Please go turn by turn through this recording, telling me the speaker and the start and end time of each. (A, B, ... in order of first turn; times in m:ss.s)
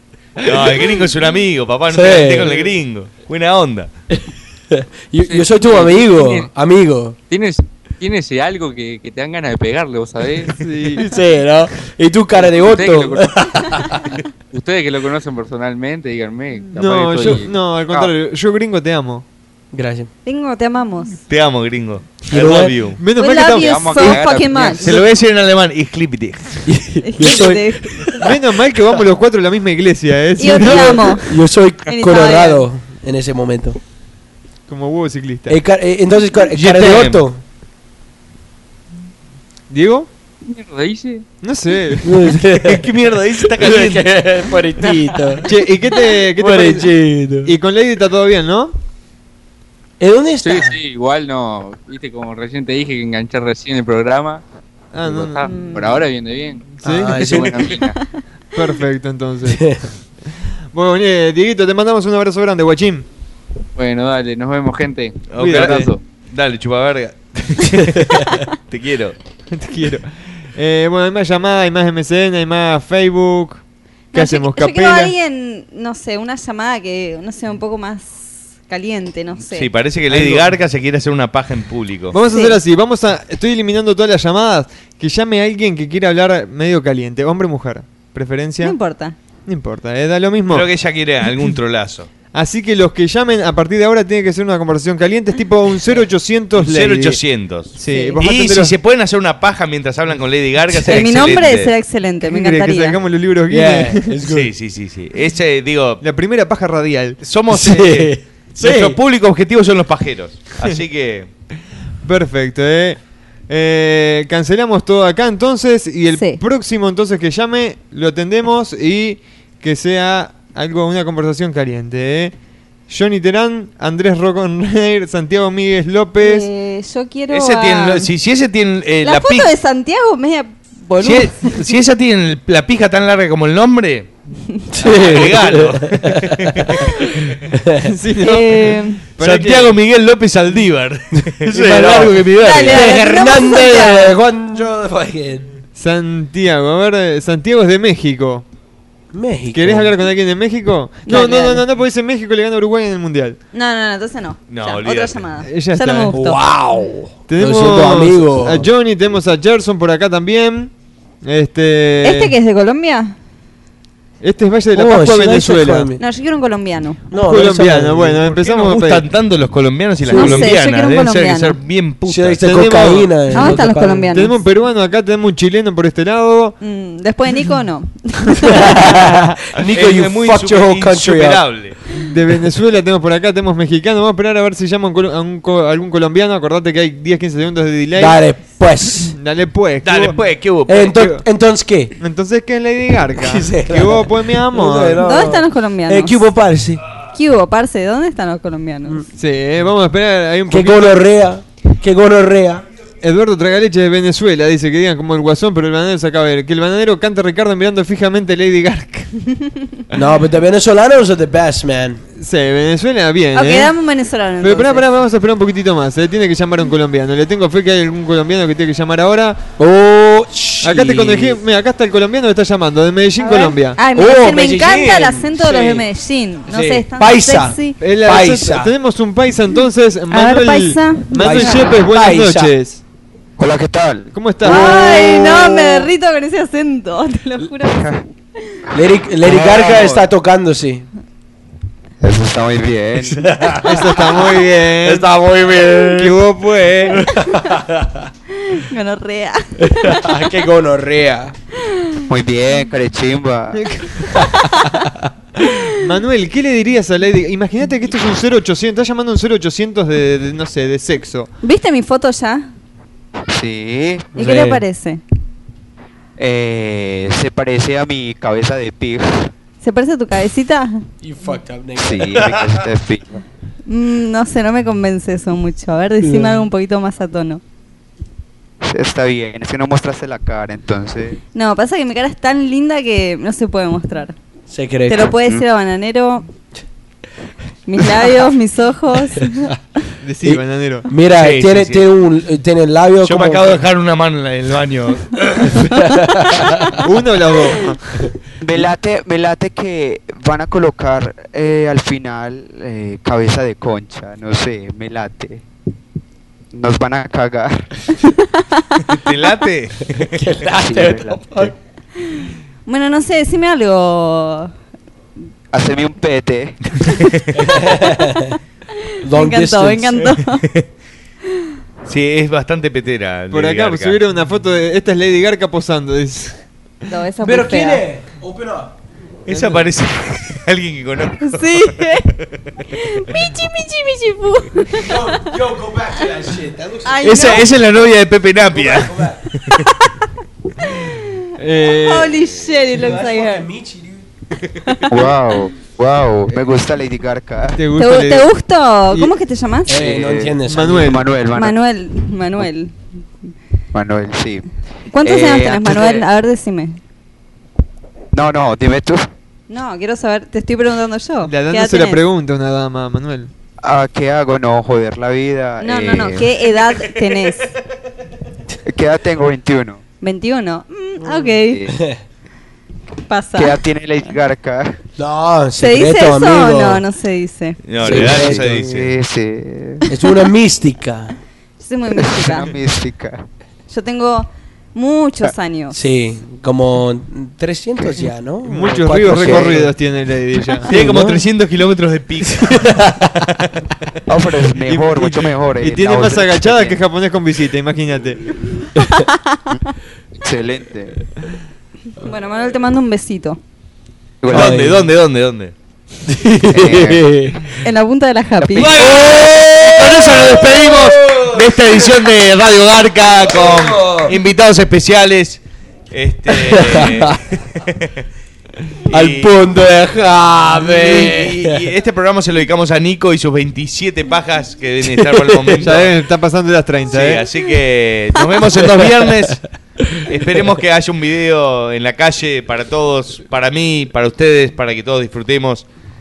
0:00.4-0:03.9 A
0:01.9-0:02.7 B
0:04.7-0:07.2 B
0:05.2-0:06.5 C
0:07.3-0:10.5 C
0:10.5-0:11.1 D
0:11.0-0:14.1 B
0:12.4-0:13.6 C
0:14.5-0:18.1 C
0:16.7-0:19.2 D
0:19.7-0:20.1 B
0:20.2-0:21.2 E
0:21.3-0:23.0 A
0:22.3-0:22.7 B
0:23.0-0:24.7 D
0:23.1-0:24.9 E
0:23.5-0:24.8 C
0:24.8-0:26.7 A
0:26.7-0:28.2 B
0:27.0-0:28.0 E
0:28.2-0:31.2 D
0:30.4-0:31.3 E
0:30.6-0:33.8 B
0:31.9-0:32.6 E
0:34.7-0:35.6 D
0:35.5-0:37.4 B
0:36.5-0:37.2 A
0:39.7-0:40.1 D
0:40.4-0:41.2 C
0:41.4-0:42.2 D
0:42.0-0:45.5 B
0:42.4-0:44.2 A
0:45.4-0:48.7 D
0:46.4-0:47.5 B
0:50.0-0:50.8 B
0:50.4-0:54.4 C
0:54.9-0:55.5 D
0:55.0-0:58.0 C
0:55.4-0:56.0 E
0:56.8-0:57.4 D
0:56.8-0:57.5 B
0:58.5-0:59.7 D
0:59.5-0:59.8 B
1:00.7-1:03.0 D
1:03.8-1:06.0 C
1:05.3-1:09.2 A
1:05.4-1:05.9 D
1:09.5-1:13.6 D
1:14.1-1:19.7 E
1:14.1-1:15.1 D
1:19.5-1:22.2 A
1:20.1-1:20.6 D
1:22.1-1:28.8 D
1:22.3-1:22.6 E
1:28.6-1:29.1 E
1:29.5-1:30.7 D
1:30.5-1:32.1 A
1:32.3-1:37.2 D
1:36.6-1:41.7 A
1:37.7-1:38.7 D
1:37.8-1:38.2 E
1:40.8-1:43.0 E
1:42.2-1:44.2 D
1:43.5-1:44.5 B
1:44.3-1:46.0 A
1:46.0-1:47.2 D
1:47.2-1:51.3 A
1:47.5-1:49.0 B
1:52.0-1:53.0 D
1:53.5-2:02.3 D
1:56.1-1:56.4 E
2:02.9-2:06.5 D
2:06.2-2:08.1 E
2:07.3-2:09.5 A
2:09.0-2:11.6 E
2:11.0-2:14.1 A
2:14.7-2:16.8 B
2:14.8-2:17.3 A
2:17.5-2:17.8 B
2:17.8-2:19.8 D
2:18.1-2:19.0 E
2:19.2-2:22.2 A
2:21.4-2:25.5 B
2:21.5-2:22.2 D
2:22.3-2:24.2 E
2:25.8-2:28.4 D
2:29.1-2:29.9 B
2:29.5-2:33.4 D
2:31.0-2:31.6 E
2:33.5-2:36.4 E
2:34.5-2:35.2 A
2:35.4-2:36.1 D
2:36.1-2:38.6 B
2:37.3-2:40.7 D
2:41.2-2:42.3 D
2:42.0-2:43.1 E
2:44.2-2:45.9 D
2:44.7-2:46.0 B
2:46.0-2:47.0 E
2:47.1-2:48.3 B
2:47.1-2:49.0 D
2:48.4-2:52.5 A
2:50.1-2:50.5 B
2:50.1-2:51.6 E
2:52.1-2:54.1 B
2:52.4-2:53.6 D
2:53.3-2:54.4 E
2:54.1-2:56.6 D
2:56.6-2:58.8 E
2:58.4-3:01.4 B
2:59.6-3:01.8 A
3:02.1-3:08.2 D
3:08.0-3:09.1 B
3:09.0-3:10.2 D
3:09.8-3:11.0 A
3:10.7-3:11.9 B
3:10.8-3:11.2 D
3:12.0-3:15.0 D
3:13.2-3:16.8 B
3:15.0-3:16.3 E
3:17.1-3:19.0 E
3:19.2-3:21.1 D
3:20.5-3:22.6 B
3:23.0-3:29.1 D
3:29.9-3:32.0 B
3:32.2-3:33.7 D
3:33.3-3:34.9 E
3:34.4-3:39.4 D
3:39.6-3:41.4 B
3:40.6-3:43.8 D
3:43.2-3:45.8 B
3:43.7-3:47.8 E
3:46.5-3:48.7 B
3:47.8-3:52.8 D
3:50.1-3:51.7 E
3:51.2-3:52.5 B
3:53.4-3:55.9 F
3:54.1-3:54.8 D
3:54.4-3:57.8 E
3:57.7-3:58.0 F
3:58.7-4:00.8 B
3:59.2-4:00.0 F
4:02.0-4:03.3 F
4:03.0-4:06.2 B
4:03.6-4:05.1 D
4:05.8-4:07.0 D
4:06.9-4:08.0 B
4:08.5-4:10.3 E
4:09.6-4:11.3 B
4:12.1-4:13.6 F
4:13.6-4:14.1 D
4:15.4-4:21.3 D
4:21.4-4:22.5 E
4:23.3-4:24.1 F
4:24.1-4:25.0 E
4:24.2-4:24.6 B
4:26.2-4:29.3 F
4:29.6-4:30.8 E
4:31.0-4:32.4 B
4:31.8-4:33.2 F
4:33.7-4:37.4 E
4:36.0-4:36.4 B
4:38.6-4:41.2 F
4:41.3-4:44.1 E
4:44.5-4:45.0 B
4:44.9-4:46.2 E
4:47.7-4:49.5 E
4:50.0-4:50.9 D
4:50.2-4:53.6 B
4:51.1-4:51.9 A
4:53.0-4:55.7 A
4:55.6-4:56.8 B
4:56.8-4:57.8 D
4:58.4-5:05.4 F
5:06.5-5:07.7 F
5:08.9-5:10.2 A
5:10.0-5:11.5 B
5:10.5-5:11.5 F
5:12.1-5:14.5 E
5:15.5-5:16.9 F
5:16.9-5:17.3 A
5:17.3-5:18.4 B
5:19.0-5:20.0 B
5:19.1-5:20.4 E
5:20.0-5:20.6 A
5:21.8-5:24.0 A
5:23.3-5:26.4 D
5:26.9-5:27.8 E
5:27.2-5:28.7 B
5:29.2-5:32.1 A
5:31.2-5:32.1 E
5:32.7-5:35.2 E
5:34.7-5:37.4 B
5:36.8-5:37.5 E
5:37.0-5:39.6 A
5:38.5-5:39.2 B
5:40.7-5:41.0 E
5:41.4-5:42.2 D
5:41.8-5:43.5 E
5:42.7-5:44.1 B
5:44.7-5:45.0 E
5:44.9-5:47.7 F
5:47.6-5:48.3 D
5:47.8-5:49.7 E
5:48.9-5:49.1 D
5:49.7-5:51.0 B
5:49.7-5:51.6 F
5:50.5-5:51.0 D
5:51.3-5:52.7 E
5:53.7-5:54.4 F
5:54.9-5:56.8 E
5:55.0-5:56.0 F
5:58.1-5:59.1 F
5:59.5-6:02.0 E
6:01.2-6:03.3 D
6:03.6-6:06.6 F
6:05.6-6:07.5 E
6:08.6-6:09.8 F
6:10.0-6:11.6 E
6:11.5-6:11.8 F
6:11.7-6:12.0 B
6:13.1-6:13.6 E
6:13.3-6:14.8 F
6:15.0-6:16.8 B
6:15.6-6:17.6 E
6:17.6-6:18.9 A
6:17.8-6:18.6 B
6:17.8-6:19.9 F
6:19.9-6:21.1 B
6:21.6-6:22.5 E
6:21.9-6:23.2 F
6:23.7-6:25.8 E
6:25.7-6:29.7 B
6:28.4-6:30.7 D
6:28.9-6:29.7 F
6:30.6-6:31.2 B
6:30.7-6:33.5 A
6:32.4-6:33.0 B
6:34.1-6:36.8 F
6:34.6-6:38.2 D
6:38.8-6:39.4 E
6:40.2-6:41.0 F
6:42.0-6:43.4 E
6:44.2-6:44.9 F
6:44.3-6:45.5 A
6:44.3-6:44.9 B
6:46.1-6:47.4 B
6:46.4-6:47.2 F
6:47.6-6:48.7 E
6:48.4-6:48.9 F
6:48.6-6:51.8 B
6:48.6-6:55.4 A
6:53.2-6:54.1 B
6:55.9-6:58.0 A
6:56.3-6:57.2 B
6:58.9-6:59.3 A
6:58.9-7:01.6 B
7:00.6-7:05.9 A
7:04.9-7:05.6 B
7:05.6-7:07.3 D
7:06.9-7:09.4 A
7:08.6-7:08.8 B
7:09.9-7:15.6 A